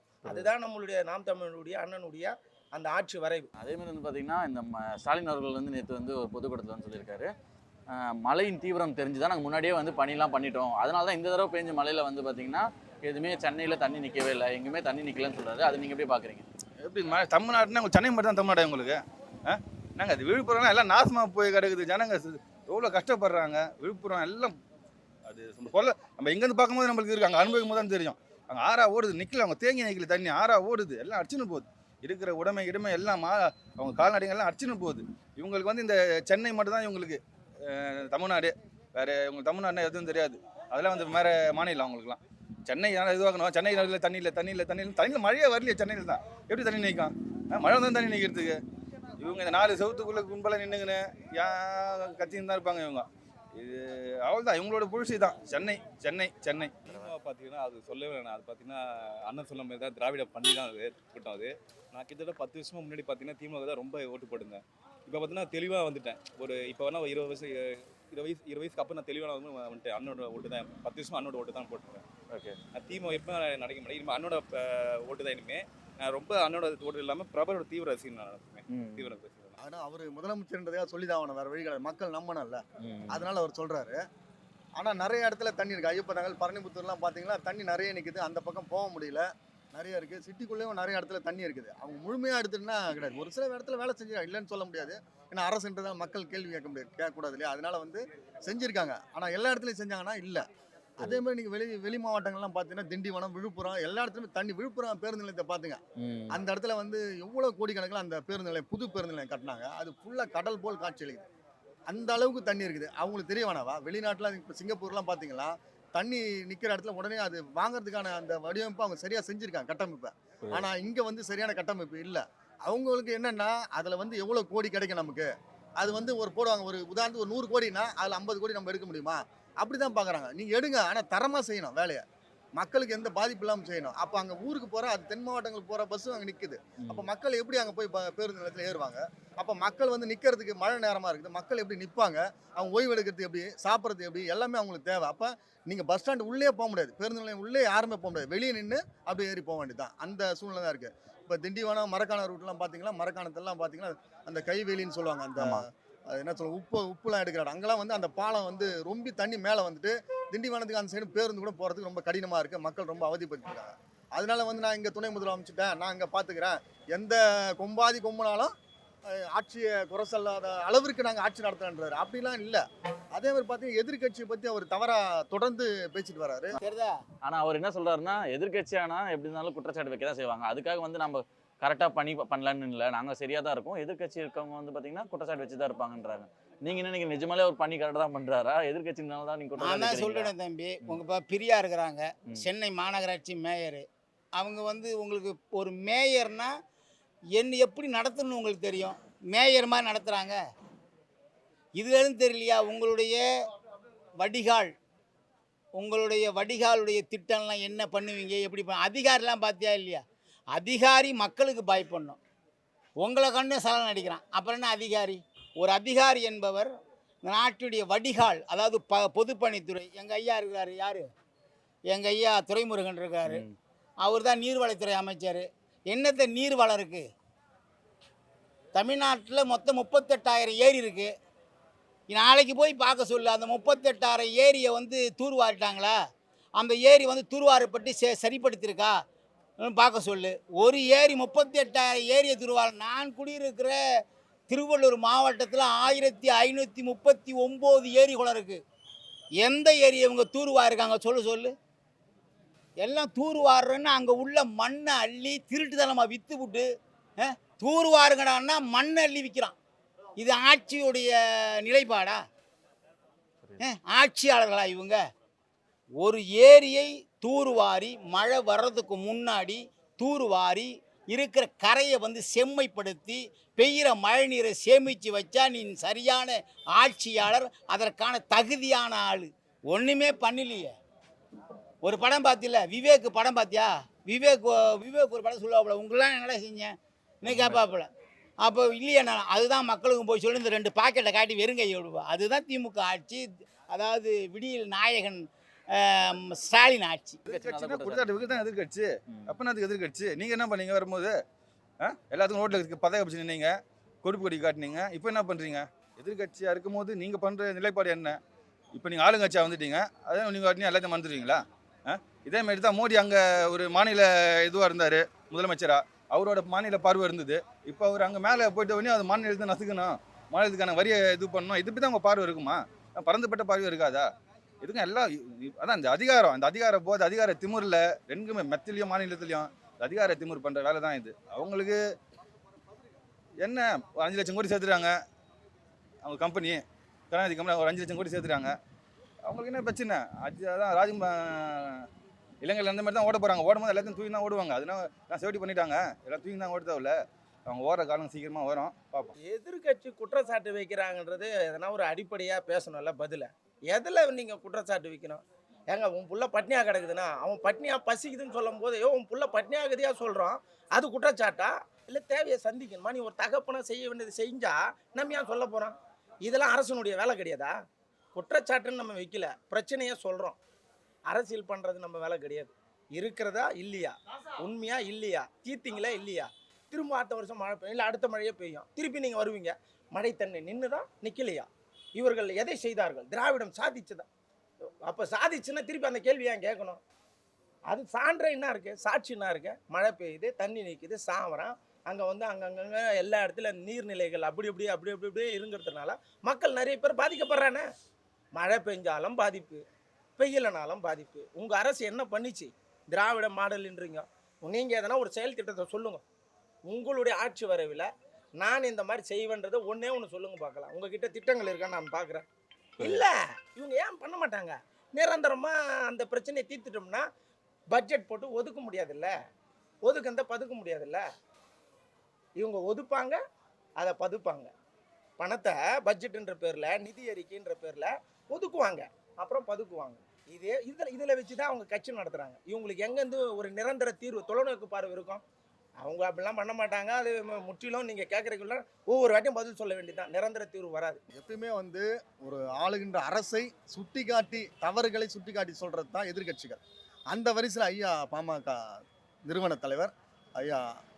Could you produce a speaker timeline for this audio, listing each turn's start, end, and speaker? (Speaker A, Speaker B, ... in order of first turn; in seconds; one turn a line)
Speaker A: 0.3-3.5
Speaker B: 3.6-7.3
Speaker B: 8.0-16.4
Speaker C: 16.8-24.6
Speaker C: 25.2-48.6
Speaker C: 49.2-57.0
Speaker D: 57.1-72.0
Speaker C: 62.5-62.8
Speaker C: 65.8-66.2
Speaker C: 68.1-68.4
Speaker C: 71.0-71.5
Speaker B: 72.3-72.6
Speaker D: 72.7-79.6
Speaker B: 78.7-79.2
Speaker E: 79.6-84.0
Speaker B: 82.8-83.2
Speaker E: 84.8-100.4
Speaker E: 101.0-105.8
Speaker B: 106.0-106.4
Speaker E: 106.3-111.2
Speaker E: 111.9-125.3
Speaker E: 125.8-132.0
Speaker E: 132.6-168.5
Speaker C: 155.4-155.6
Speaker E: 169.1-172.6
Speaker E: 173.1-176.6
Speaker F: 176.6-177.0
Speaker B: 177.2-191.0
Speaker F: 189.6-193.8
Speaker F: 194.3-196.5
Speaker F: 197.3-200.4
Speaker F: 201.8-203.2
Speaker F: 204.2-204.7
Speaker F: 205.8-212.2
Speaker F: 213.0-216.7
Speaker F: 217.2-221.1
Speaker F: 221.9-223.4
Speaker B: 223.3-223.5
Speaker F: 224.0-227.0
Speaker F: 228.7-231.1
Speaker F: 232.1-235.9
Speaker F: 236.6-238.9
Speaker F: 239.6-243.8
Speaker F: 244.5-248.6
Speaker F: 249.4-251.5
Speaker F: 252.8-256.6
Speaker F: 257.2-259.6
Speaker F: 260.2-262.2
Speaker F: 263.6-265.0
Speaker F: 266.0-280.7
Speaker F: 281.8-287.9
Speaker B: 287.2-287.6
Speaker F: 288.4-297.2
Speaker B: 297.3-298.5
Speaker C: 297.3-301.1
Speaker C: 301.8-308.2
Speaker C: 308.7-324.1
Speaker C: 324.6-331.8
Speaker C: 333.4-334.9
Speaker C: 336.0-338.5
Speaker C: 339.2-341.9
Speaker C: 342.4-346.9
Speaker C: 347.5-349.1
Speaker A: 349.2-367.5
Speaker A: 368.1-370.4
Speaker A: 371.1-384.1
Speaker A: 384.9-386.8
Speaker A: 387.7-397.6
Speaker A: 398.3-399.6
Speaker A: 400.2-406.0
Speaker A: 406.6-407.9
Speaker A: 408.4-412.2
Speaker A: 412.8-417.0
Speaker A: 417.7-419.1
Speaker A: 419.8-421.0
Speaker A: 422.4-423.2
Speaker A: 423.8-424.5
Speaker A: 425.2-435.2
Speaker A: 435.8-441.0
Speaker E: 441.1-446.6
Speaker E: 447.1-448.6
Speaker E: 449.3-450.6